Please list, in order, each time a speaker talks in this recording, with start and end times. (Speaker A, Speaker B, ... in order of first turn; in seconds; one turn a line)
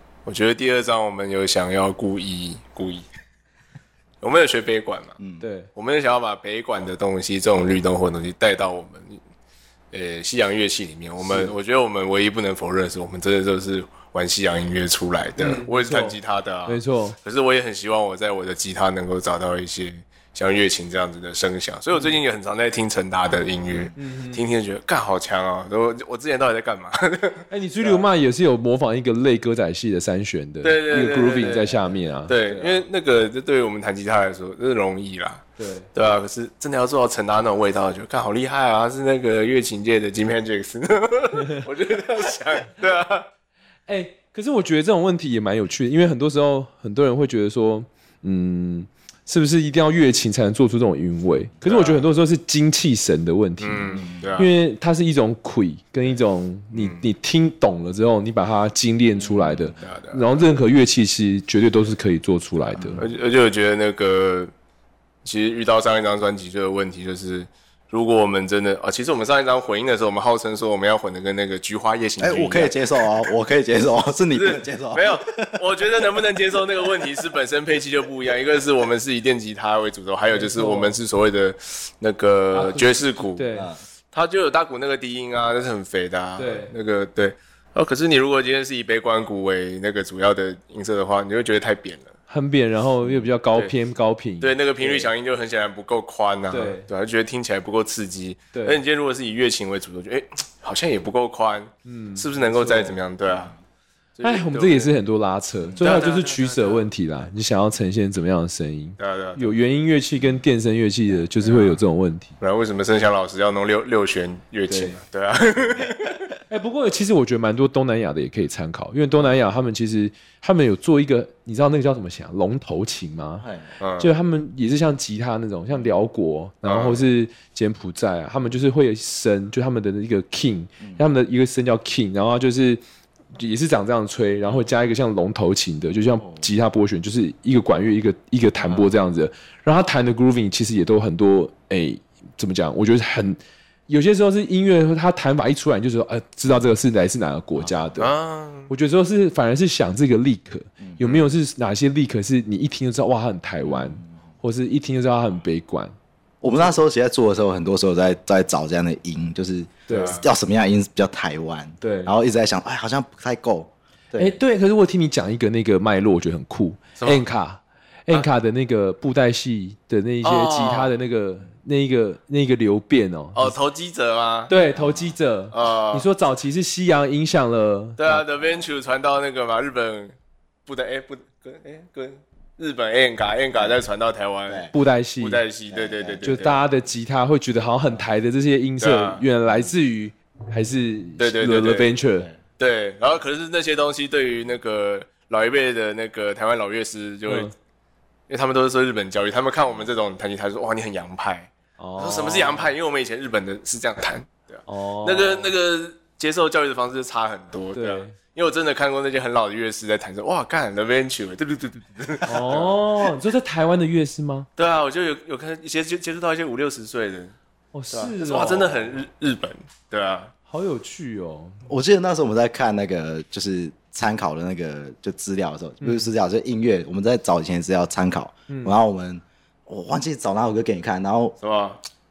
Speaker A: 0.3-3.0
Speaker A: 4.2-5.2
Speaker B: 5.4-5.7
Speaker A: 5.8-9.2
Speaker A: 9.9-28.0
Speaker C: 11.2-11.5
Speaker B: 15.4-17.2
Speaker B: 24.0-24.4
Speaker B: 27.5-32.9
Speaker A: 30.6-35.4
Speaker B: 35.6-35.9
Speaker A: 36.0-43.3
Speaker B: 41.4-41.6
Speaker B: 43.9-63.0
Speaker A: 51.6-52.1
Speaker A: 53.6-54.5
Speaker C: 53.9-54.3
Speaker A: 56.7-57.0
Speaker C: 59.2-59.8
Speaker A: 59.8-60.4
Speaker C: 62.8-63.0
Speaker A: 63.0-64.5
Speaker A: 65.2-73.3
Speaker C: 72.2-75.6
Speaker A: 74.3-83.5
Speaker B: 80.3-81.0
Speaker B: 82.5-83.7
Speaker A: 84.1-92.1
Speaker B: 86.4-86.7
Speaker B: 92.3-95.1
Speaker A: 94.4-103.5
Speaker B: 96.5-96.9
Speaker B: 98.5-98.8
Speaker B: 101.8-103.0
Speaker A: 104.2-105.0
Speaker B: 104.2-112.3
Speaker A: 105.8-106.8
Speaker A: 109.0-109.6
Speaker A: 111.4-111.8
Speaker A: 112.4-116.2
Speaker B: 116.5-123.5
Speaker C: 123.4-123.7
Speaker A: 123.8-124.1
Speaker B: 124.0-132.8
Speaker A: 126.7-127.0
Speaker B: 133.4-148.1
Speaker A: 148.0-148.7
Speaker B: 148.7-155.9
Speaker C: 153.7-154.0
Speaker C: 156.4-164.3
Speaker B: 159.9-160.2
Speaker A: 159.9-160.2
Speaker B: 161.8-162.1
Speaker B: 164.2-173.6
Speaker A: 170.2-170.9
Speaker A: 173.3-174.5
Speaker B: 174.5-178.2
Speaker C: 174.8-175.1
Speaker A: 175.5-176.1
Speaker A: 178.0-180.2
Speaker A: 180.7-186.6
Speaker C: 184.5-184.7
Speaker B: 184.7-185.4
Speaker C: 185.7-186.2
Speaker B: 186.2-192.3
Speaker A: 188.8-189.2
Speaker A: 191.2-191.9
Speaker A: 192.6-197.5
Speaker B: 197.3-197.5
Speaker A: 198.3-212.8
Speaker B: 201.8-202.7
Speaker B: 204.7-205.5
Speaker B: 207.8-208.2
Speaker B: 212.3-214.5
Speaker A: 214.6-217.3
Speaker B: 217.7-218.9
Speaker A: 217.9-220.3
Speaker B: 220.5-221.6
Speaker C: 221.7-231.4
Speaker B: 225.8-226.1
Speaker B: 228.5-228.8
Speaker A: 231.4-231.8